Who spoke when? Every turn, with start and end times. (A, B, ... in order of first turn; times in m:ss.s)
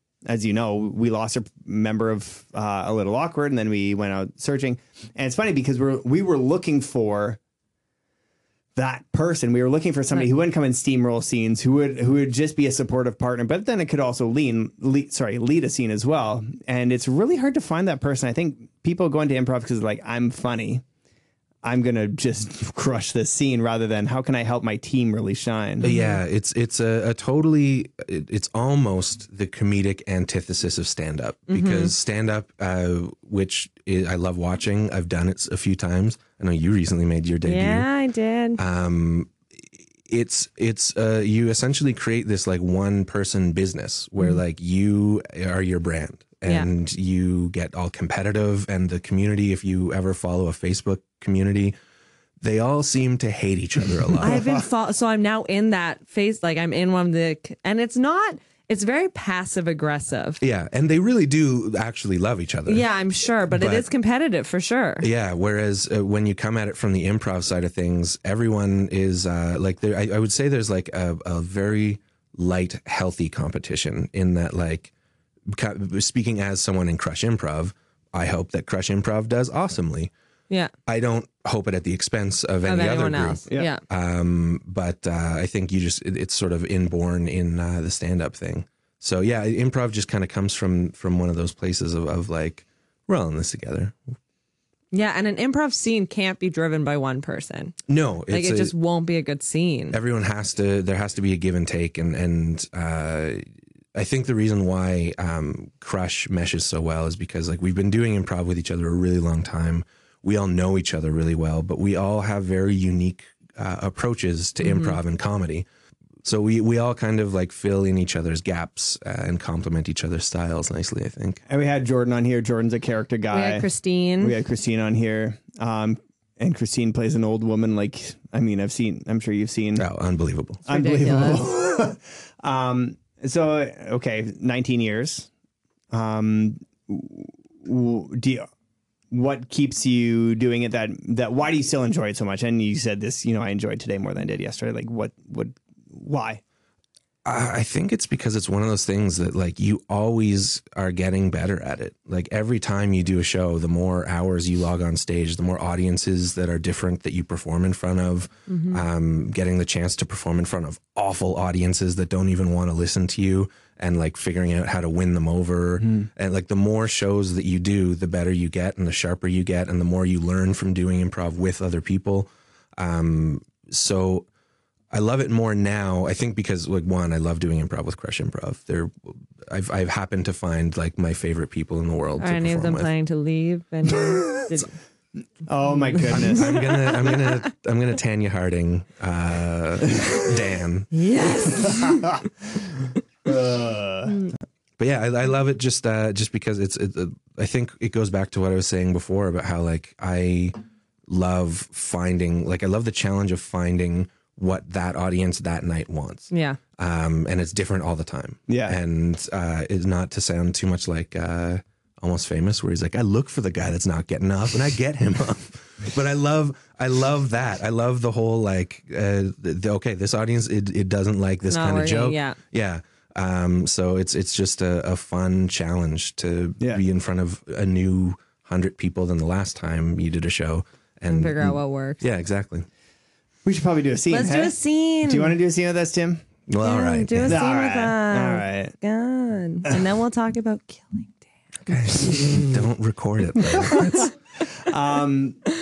0:00.3-0:07.4 A
0:08.8-0:20.8 A
0:21.6-0:25.9 A
0:25.8-0:26.2 B
0:25.8-0:37.9 C
0:31.5-0:31.9 B
0:37.4-0:38.6 B
0:38.6-0:39.3 C
0:40.1-0:51.8 C
0:52.4-0:54.4 C
0:54.2-0:54.6 A
0:54.2-1:00.4 B
1:00.4-1:02.9 C
1:02.7-1:05.1 B
1:03.6-1:03.9 C
1:05.0-1:14.9 C
1:15.5-1:20.1 C
1:20.9-1:34.0 C
1:22.6-1:23.8 B
1:34.9-1:37.8 B
1:37.9-1:38.7 C
1:38.3-1:40.0 B
1:39.9-1:55.6 C
1:54.6-1:55.0 B
1:56.2-2:01.4 C
2:01.5-2:03.7 A
2:03.3-2:04.4 B
2:04.2-2:09.9 A
2:09.8-2:10.6 C
2:10.7-2:11.5 B
2:10.7-2:15.3 A
2:15.9-2:18.5 A
2:19.1-2:26.4 A
2:27.2-2:54.3 C
2:38.5-2:38.8 B
2:45.8-2:46.1 A
2:54.9-3:02.9 C
3:02.2-3:04.7 B
3:05.5-3:06.7 A
3:06.0-3:10.9 C
3:06.1-3:07.4 B
3:10.9-3:12.2 B
3:11.6-3:12.2 A
3:13.2-3:14.2 A
3:14.8-3:20.6 C
3:21.1-3:52.7 C
3:26.3-3:26.6 B
3:28.5-3:28.8 A
3:41.5-3:42.4 B
3:51.1-3:52.0 B
3:53.4-3:56.2 A
3:54.1-3:55.3 B
3:56.5-3:57.4 C
3:56.6-4:02.5 B
3:57.3-3:58.7 A
4:01.7-4:04.1 C
4:02.0-4:02.5 A
4:03.4-4:05.4 A